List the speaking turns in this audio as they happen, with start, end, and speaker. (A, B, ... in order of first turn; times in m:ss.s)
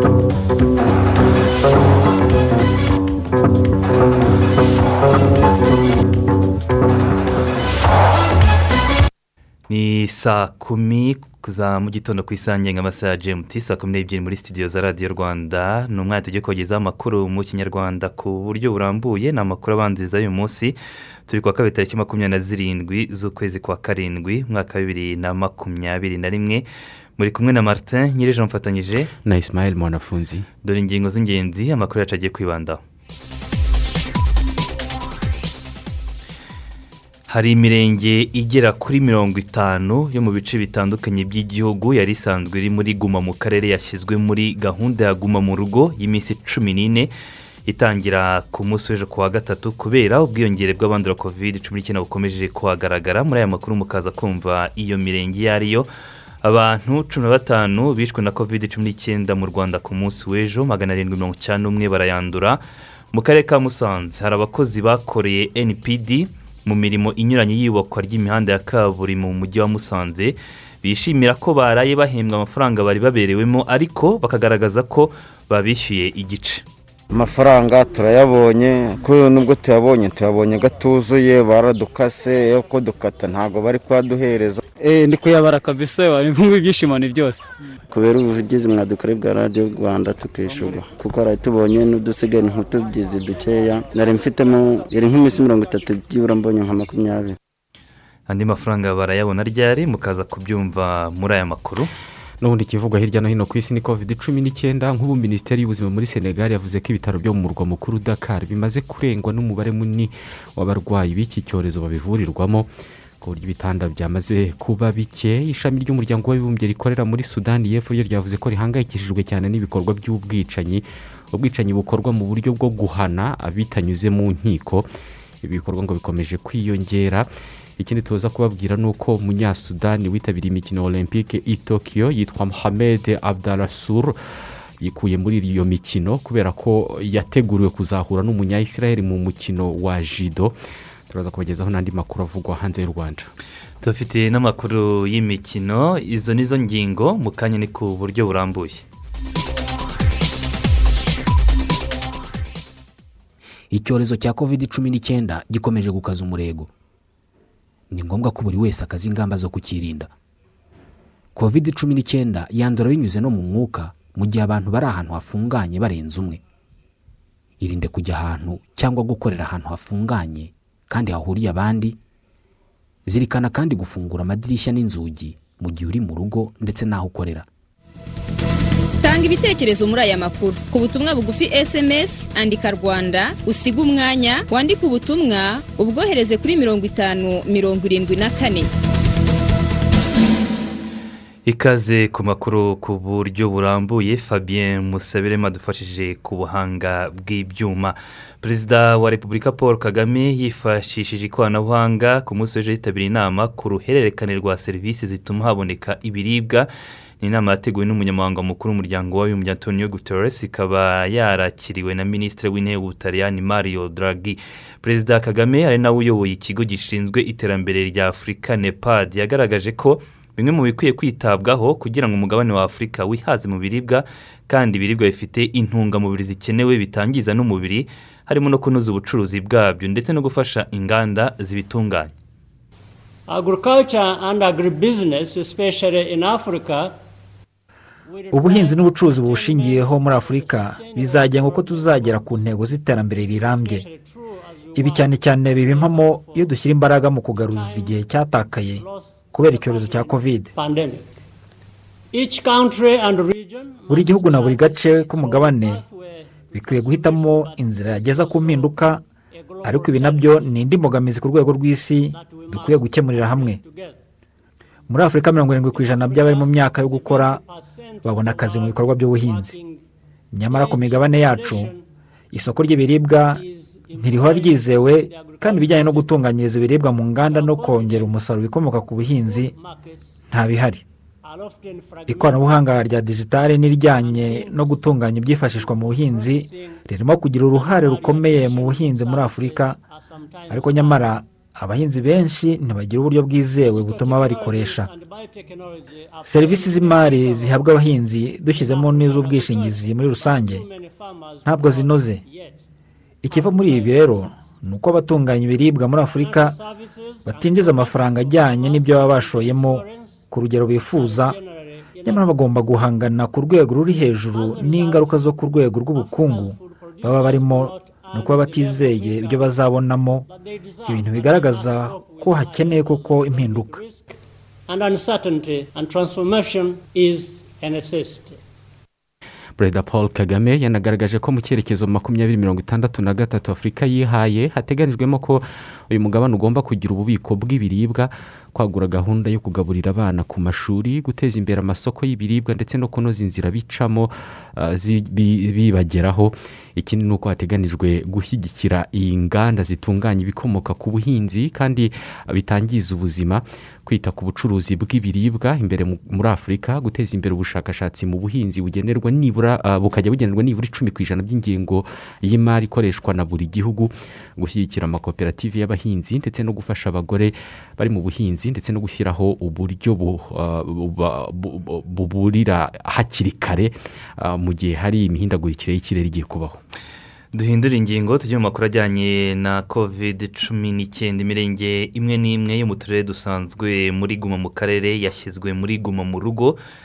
0:09.7-0:20.8 A
0:21.3-0:26.6 A
0:27.2-0:29.1 A
0:29.2-0:30.4 B
0:30.6-0:32.8 A
0:37.3-0:47.1 A
0:47.6-0:55.9 A
0:56.4-1:02.6 A
1:03.1-1:16.6 A
1:17.1-1:24.6 C
1:24.8-1:27.5 D
1:27.9-1:37.4 C
1:38.3-1:41.9 A
1:42.4-1:52.7 B
1:53.2-2:04.9 B
2:05.4-2:14.2 B
2:14.8-2:20.6 B
2:21.1-2:23.3 B
2:23.8-2:28.8 A
2:33.7-2:36.7 B
2:37.9-2:40.1 B
2:41.4-2:46.4 B
2:47.6-2:52.0 B
2:53.1-2:57.4 B
2:59.0-3:08.7 E
3:11.4-3:26.7 A
3:27.2-3:52.1 A
3:53.3-3:57.0 F
3:58.0-4:11.0 F
3:58.3-4:03.9 G
4:04.7-4:10.5 G
4:12.1-4:20.6 F
4:13.9-4:15.8 G
4:16.5-4:19.0 G
4:19.6-4:23.6 G
4:22.1-4:24.0 F
4:24.9-4:27.4 G
4:25.5-4:29.8 F
4:28.0-4:29.5 G
4:30.3-4:31.7 G
4:30.5-4:31.8 F
4:32.3-4:33.4 G
4:33.1-4:36.3 F
4:33.9-4:39.5 G
4:37.2-4:40.2 F
4:40.3-4:40.8 G
4:41.2-4:42.8 F
4:42.1-4:49.8 G
4:43.7-4:46.8 F
4:47.5-4:51.2 F
4:50.5-4:54.9 G
4:53.6-5:02.6 F
4:56.2-5:00.6 G
5:01.4-5:02.2 G
5:03.2-5:06.6 G
5:03.3-5:04.4 F
5:05.9-5:10.2 F
5:07.3-5:11.4 G
5:10.8-5:12.7 F
5:12.0-5:20.2 G
5:14.2-5:19.7 F
5:20.3-5:24.2 F
5:20.8-5:23.8 G
5:24.7-5:28.4 F
5:29.6-6:16.6 B
6:17.3-6:26.6 A